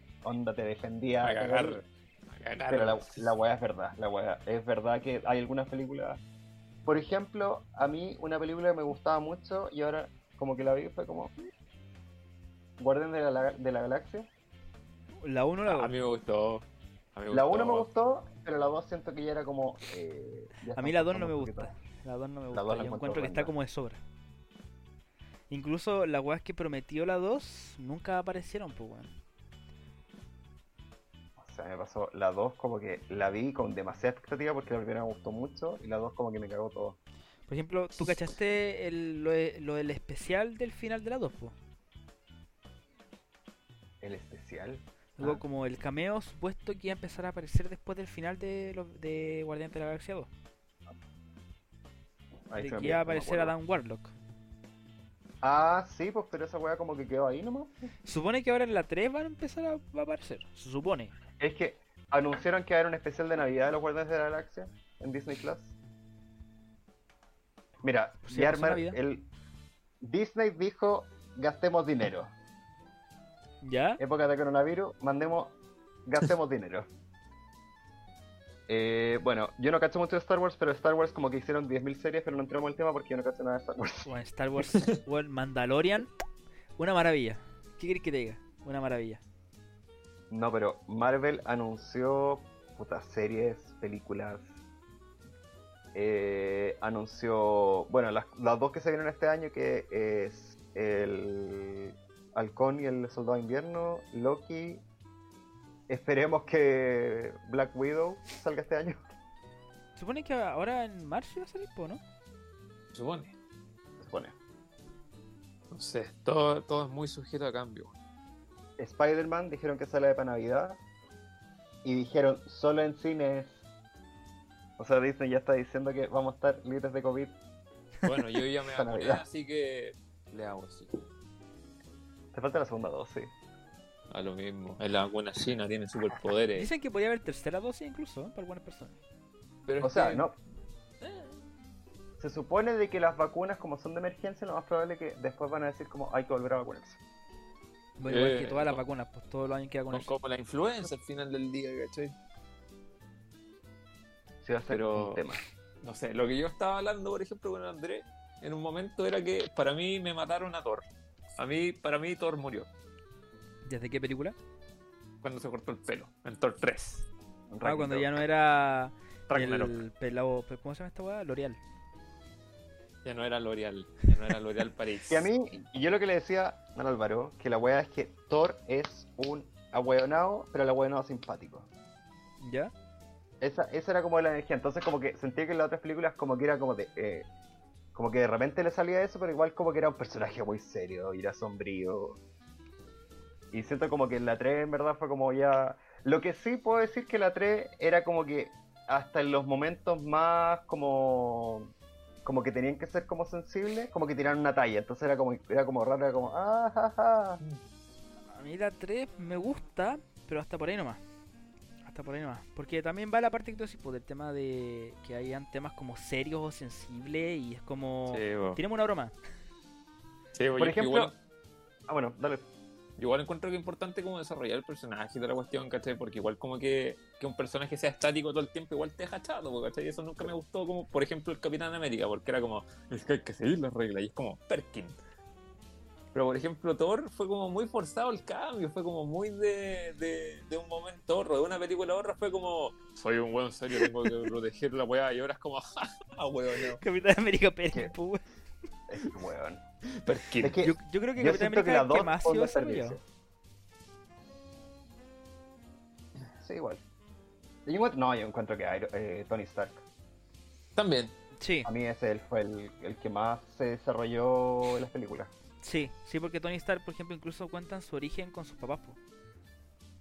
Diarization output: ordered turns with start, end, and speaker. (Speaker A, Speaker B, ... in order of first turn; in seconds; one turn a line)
Speaker A: 0.2-1.8
Speaker B: 1.2-3.3
Speaker A: 2.7-6.2
Speaker A: 6.9-11.3
Speaker A: 12.8-14.3
Speaker C: 15.2-15.9
Speaker B: 15.7-17.9
Speaker A: 17.3-21.7
Speaker C: 20.8-24.0
Speaker A: 22.5-23.5
Speaker C: 25.5-29.1
Speaker A: 31.4-37.0
Speaker C: 37.5-41.5
Speaker A: 44.0-45.4
Speaker C: 45.2-50.3
Speaker A: 52.5-53.5
Speaker C: 52.6-54.1
Speaker A: 55.4-57.7
Speaker C: 58.0-61.1
Speaker A: 61.4-65.8
Speaker A: 67.8-69.3
Speaker C: 68.2-69.0
Speaker A: 70.0-72.3
Speaker C: 73.6-74.0
Speaker A: 74.0-76.9
Speaker A: 78.7-84.1
Speaker C: 84.0-86.1
Speaker C: 86.8-89.2
Speaker A: 90.3-94.5
Speaker A: 95.9-104.8
Speaker A: 105.9-109.0
Speaker C: 110.0-112.0
Speaker B: 112.9-113.3
Speaker A: 114.0-114.4
Speaker B: 115.7-118.0
Speaker A: 118.8-120.8
Speaker A: 121.8-123.6
Speaker A: 124.8-127.4
Speaker B: 128.0-131.0
Speaker A: 128.7-129.2
Speaker A: 132.3-133.3
Speaker B: 134.1-136.7
Speaker C: 136.6-139.0
Speaker B: 139.7-140.3
Speaker A: 139.8-140.4
Speaker A: 142.2-147.0
Speaker C: 148.0-150.1
Speaker B: 148.1-148.8
Speaker B: 149.9-152.2
Speaker A: 154.4-155.4
Speaker B: 154.7-155.2
Speaker B: 155.8-160.9
Speaker B: 161.4-162.7
Speaker C: 163.7-164.4
Speaker B: 165.2-167.1
Speaker A: 167.5-168.2
Speaker C: 167.6-171.6
Speaker A: 169.3-169.7
Speaker B: 173.0-175.3
Speaker A: 175.1-181.7
Speaker C: 182.4-182.7
Speaker A: 183.4-187.3
Speaker A: 187.9-192.2
Speaker A: 193.5-201.7
Speaker A: 202.2-207.4
Speaker C: 208.3-211.0
Speaker C: 211.8-219.2
Speaker B: 218.1-218.6
Speaker B: 220.3-221.1
Speaker A: 220.6-221.1
Speaker A: 221.9-222.5
Speaker B: 223.0-235.0
Speaker B: 236.1-246.8
Speaker C: 243.8-244.3
Speaker C: 246.7-248.2
Speaker A: 248.9-249.6
Speaker B: 250.0-250.6
Speaker A: 250.4-253.0
Speaker C: 250.6-253.0
Speaker A: 256.4-256.8
Speaker A: 257.7-259.8
Speaker B: 260.8-261.1
Speaker C: 261.4-261.7
Speaker A: 261.6-265.3
Speaker C: 265.6-269.0